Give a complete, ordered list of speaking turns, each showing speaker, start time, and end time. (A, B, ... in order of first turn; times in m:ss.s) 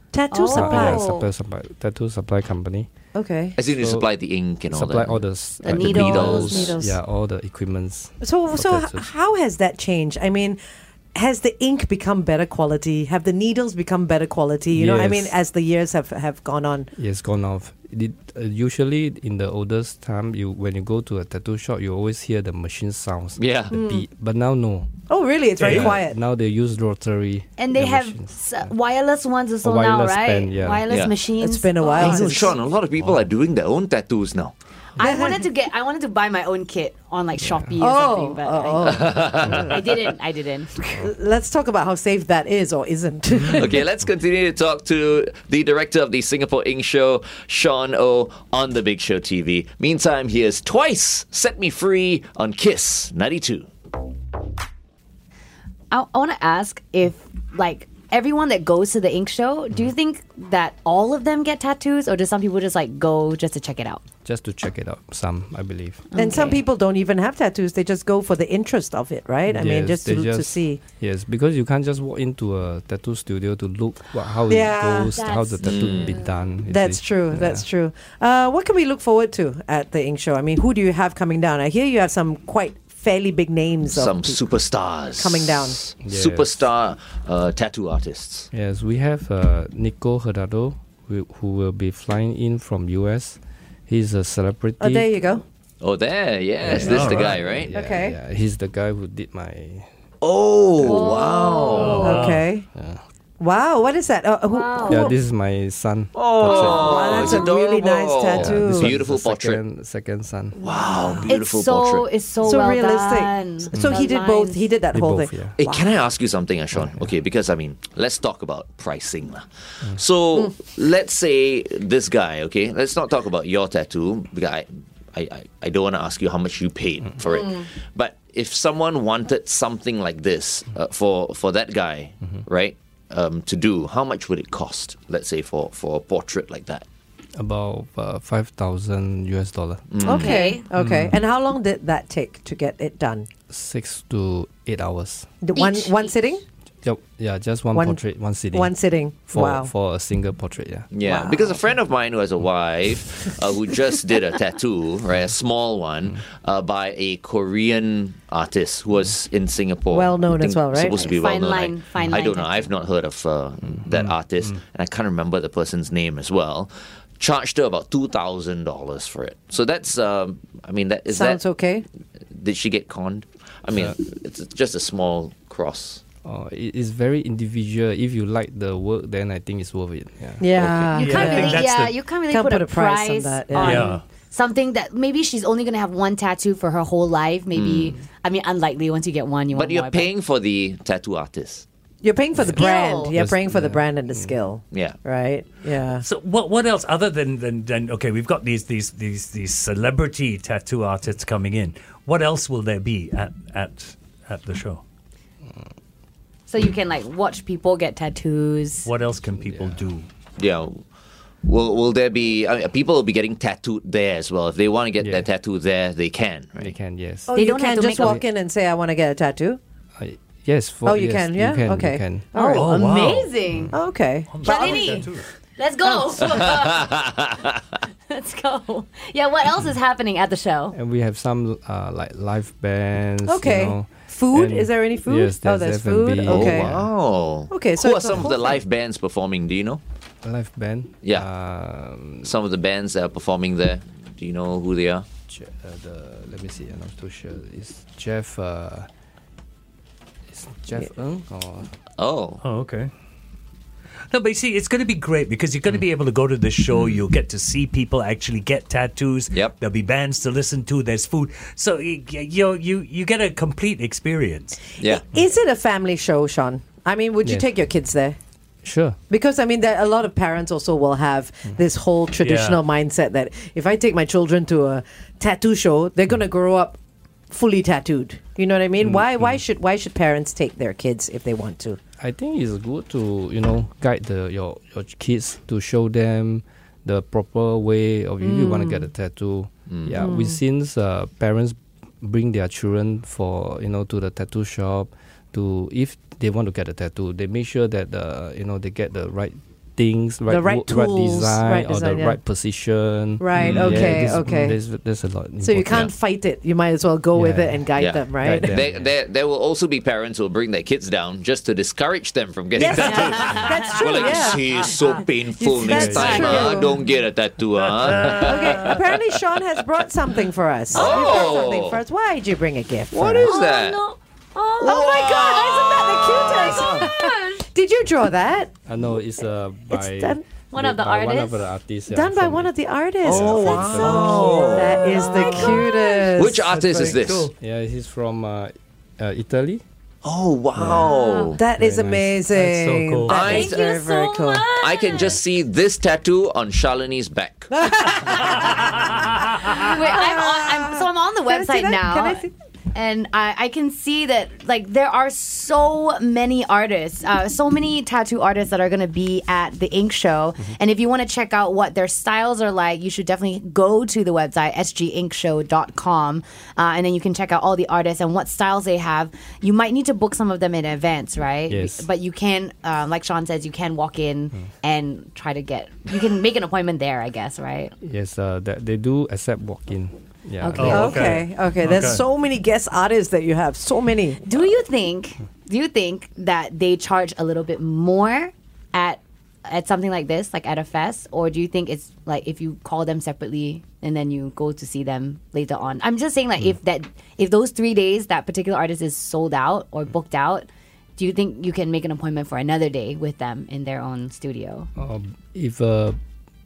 0:00.1-0:01.2 A
0:00.3-0:01.1 B
0:00.5-0:02.9 C
0:03.2-0:03.6 A
0:03.6-0:06.8 D
0:03.7-0:04.1 C
0:04.7-0:09.1 C
0:05.6-0:06.7 B
0:06.4-0:07.0 A
0:08.2-0:10.6 A
0:11.2-0:16.9 A
0:14.7-0:15.3 C
0:17.0-0:24.9 C
0:23.4-0:23.8 D
0:23.7-0:24.0 A
0:25.1-0:26.2 A
0:25.6-0:26.0 E
0:25.7-0:28.3 C
0:27.6-0:32.4 B
0:29.6-0:30.9 C
0:30.9-0:31.1 D
0:31.4-0:32.6 A
0:31.9-0:34.5 D
0:35.0-0:40.8 B
0:35.0-0:35.4 A
0:37.8-0:39.3 A
0:38.8-0:40.0 D
0:41.0-0:43.8 A
0:43.5-0:53.7 D
0:55.9-1:04.0 B
1:04.2-1:06.1 C
1:06.1-1:06.6 B
1:06.2-1:10.8 A
1:09.5-1:17.7 C
1:14.5-1:15.2 A
1:15.1-1:16.5 B
1:15.6-1:16.2 D
1:16.7-1:24.4 A
1:23.9-1:28.5 D
1:25.2-1:25.8 A
1:26.0-1:26.6 C
1:28.5-1:35.2 C
1:34.8-1:35.4 A
1:35.8-1:37.7 D
1:36.6-1:39.9 C
1:36.8-1:37.6 E
1:37.7-1:38.2 A
1:40.2-1:42.3 D
1:40.8-1:42.2 B
1:41.7-1:42.5 E
1:42.0-1:42.7 A
1:42.8-1:43.0 C
1:43.4-1:45.2 A
1:44.5-1:45.1 B
1:44.9-1:47.1 C
1:46.1-1:49.6 D
1:46.5-1:47.5 B
1:46.6-1:49.0 A
1:48.4-1:50.6 C
1:50.6-1:52.1 D
1:50.9-1:51.4 A
1:51.3-1:54.7 B
1:52.4-1:56.0 A
1:53.8-1:54.0 C
1:54.9-1:55.6 C
1:55.6-2:16.8 D
1:56.8-1:57.1 C
2:07.3-2:07.7 A
2:17.4-2:19.9 C
2:19.9-2:20.4 D
2:20.0-2:23.3 A
2:20.1-2:20.6 B
2:20.8-2:21.2 C
2:23.5-2:25.3 C
2:25.4-2:26.4 A
2:25.5-2:26.2 B
2:26.8-2:28.8 C
2:27.7-2:29.7 A
2:29.3-2:30.9 C
2:30.9-2:51.4 D
2:31.0-2:31.6 A
2:39.9-2:41.0 A
2:41.0-2:42.7 B
2:51.1-2:51.9 A
2:52.3-2:56.0 D
2:56.2-3:00.5 C
3:00.4-3:01.6 A
3:00.6-3:01.0 D
3:00.9-3:02.0 E
3:01.0-3:10.1 B
3:02.3-3:03.9 A
3:03.6-3:04.0 E
3:07.5-3:08.0 D
3:09.5-3:11.6 D
3:12.0-3:16.0 A
3:12.4-3:12.6 C
3:12.5-3:13.1 B
3:13.2-3:14.3 C
3:14.7-3:15.0 D
3:16.0-3:24.8 E
3:26.5-3:28.9 B
3:28.8-3:30.1 E
3:30.4-3:30.8 D
3:31.4-3:36.7 D
3:35.0-3:35.3 C
3:36.6-3:37.4 C
3:37.3-3:39.6 A
3:37.3-3:38.2 B
3:40.0-3:42.4 C
3:40.8-3:42.7 A
3:42.4-3:43.7 E
3:42.4-3:43.8 B
3:43.7-3:45.1 A
3:44.3-3:45.3 E
3:44.4-3:45.0 B
3:45.6-3:47.1 B
3:45.8-3:46.2 A
3:46.9-3:47.3 D
3:48.1-3:50.8 B
3:50.7-3:56.9 C
3:53.2-3:56.7 A
3:56.2-3:59.8 D
3:57.5-3:58.6 A
4:00.2-4:02.4 C
4:01.0-4:01.3 D
4:02.2-4:05.1 D
4:05.3-4:08.9 C
4:10.3-4:11.7 C
4:12.0-4:12.4 D
4:12.4-4:12.9 E
4:14.1-4:24.7 E
4:24.8-4:25.0 D
4:24.8-4:28.2 A
4:27.2-4:27.5 C
4:28.6-4:29.0 C
4:29.1-4:36.8 A
4:32.2-4:32.6 E
4:37.3-4:41.8 A
4:38.8-4:39.4 C
4:42.0-5:05.9 C
4:48.2-4:48.9 B
4:49.7-4:50.0 D
4:50.0-4:50.4 A
5:00.3-5:02.2 A
5:03.2-5:04.6 A
5:03.4-5:04.0 D
5:05.4-5:08.6 A
5:07.1-5:07.7 C
5:07.8-5:19.1 D
5:08.2-5:08.9 C
5:12.5-5:16.8 A
5:12.6-5:14.6 B
5:15.7-5:16.6 C
5:15.9-5:16.5 B
5:17.7-5:18.2 E
5:18.0-5:23.4 A
5:20.7-5:21.8 D
5:20.8-5:21.5 B
5:22.9-5:23.8 D
5:23.2-5:27.5 B
5:24.6-5:26.9 D
5:24.6-5:28.5 A
5:28.7-5:32.6 C
5:29.7-5:30.2 A
5:30.5-5:31.4 B
5:31.9-5:37.0 A
5:33.0-5:35.5 D
5:33.1-5:34.1 C
5:33.1-5:35.0 E
5:33.4-5:36.1 B
5:36.2-5:37.3 D
5:36.8-5:37.3 E
5:37.4-5:39.6 C
5:40.0-5:41.4 D
5:40.6-5:40.9 E
5:40.7-5:41.3 B
5:41.4-5:44.5 A
5:41.6-5:42.2 C
5:42.3-5:43.3 E
5:43.0-5:43.5 D
5:43.2-5:45.2 B
5:44.6-5:48.4 D
5:47.6-5:52.3 A
5:49.6-6:17.7 B
6:11.5-6:11.9 C
6:17.8-6:21.0 C
6:20.4-6:21.0 B
6:20.6-6:22.0 E
6:20.7-6:24.2 A
6:24.2-6:44.7 B
6:44.8-6:46.0 C